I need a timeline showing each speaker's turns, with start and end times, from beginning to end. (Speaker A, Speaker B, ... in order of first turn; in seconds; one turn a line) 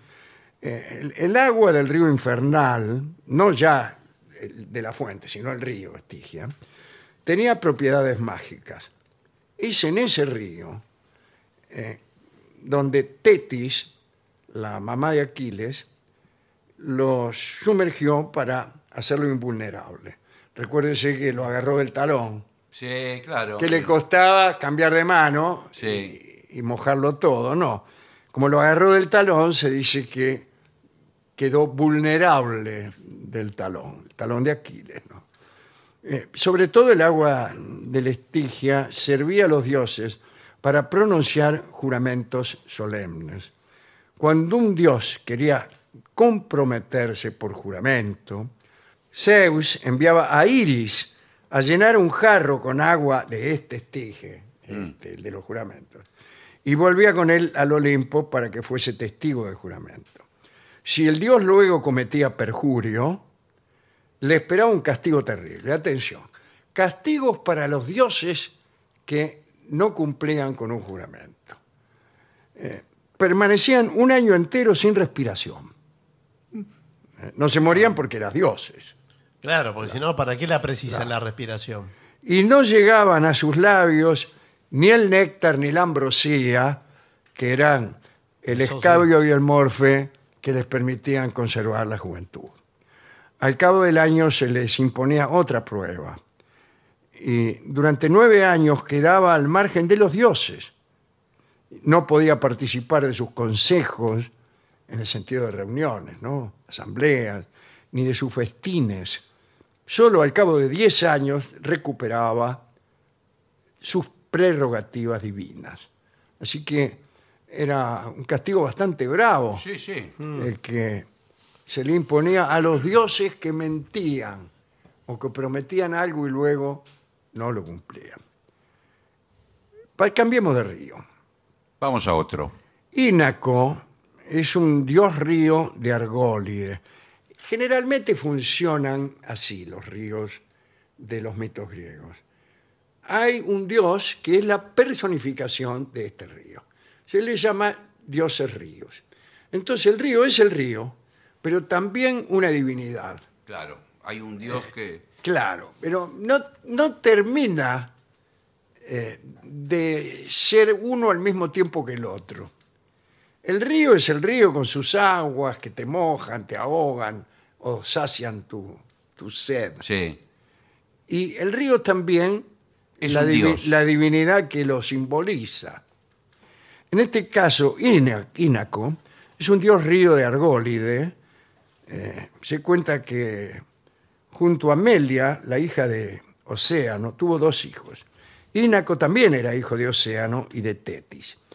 Speaker A: 0.6-6.5
Speaker A: 7.2-8.9
Speaker A: 9.6-10.8
Speaker A: 11.7-12.0
Speaker A: 12.6-13.9
Speaker A: 14.5-15.9
Speaker A: 16.8-22.4
Speaker B: 22.7-23.9
Speaker A: 23.6-30.5
Speaker B: 25.8-26.1
Speaker A: 31.4-35.2
Speaker A: 36.0-43.5
Speaker A: 44.2-48.5
Speaker A: 49.1-56.1
Speaker A: 56.6-60.2
Speaker A: 60.8-63.2
Speaker A: 64.2-68.5
Speaker A: 69.0-71.6
Speaker A: 72.5-75.7
Speaker A: 77.2-78.9
Speaker C: 79.4-81.9
Speaker A: 82.2-86.8
Speaker A: 87.3-92.5
Speaker C: 88.5-89.1
Speaker A: 93.4-96.2
Speaker A: 97.2-100.7
Speaker A: 101.7-104.3
Speaker A: 104.9-109.2
Speaker A: 109.9-112.6
Speaker A: 113.8-115.9
Speaker A: 116.4-119.6
Speaker B: 119.6-120.1
Speaker A: 120.3-121.1
Speaker A: 121.7-124.5
Speaker A: 125.1-128.2
Speaker A: 130.0-131.0
Speaker B: 131.8-132.5
Speaker A: 132.9-136.8
Speaker A: 137.4-140.4
Speaker A: 141.0-142.2
Speaker A: 143.0-153.2
Speaker B: 153.5-155.0
Speaker A: 155.2-157.9
Speaker A: 158.8-162.5
Speaker A: 163.4-169.8
Speaker B: 169.8-170.2
Speaker A: 171.1-172.5
Speaker B: 173.0-173.7
Speaker A: 173.0-175.8
Speaker A: 176.9-181.1
Speaker A: 181.9-183.6
Speaker A: 184.3-191.4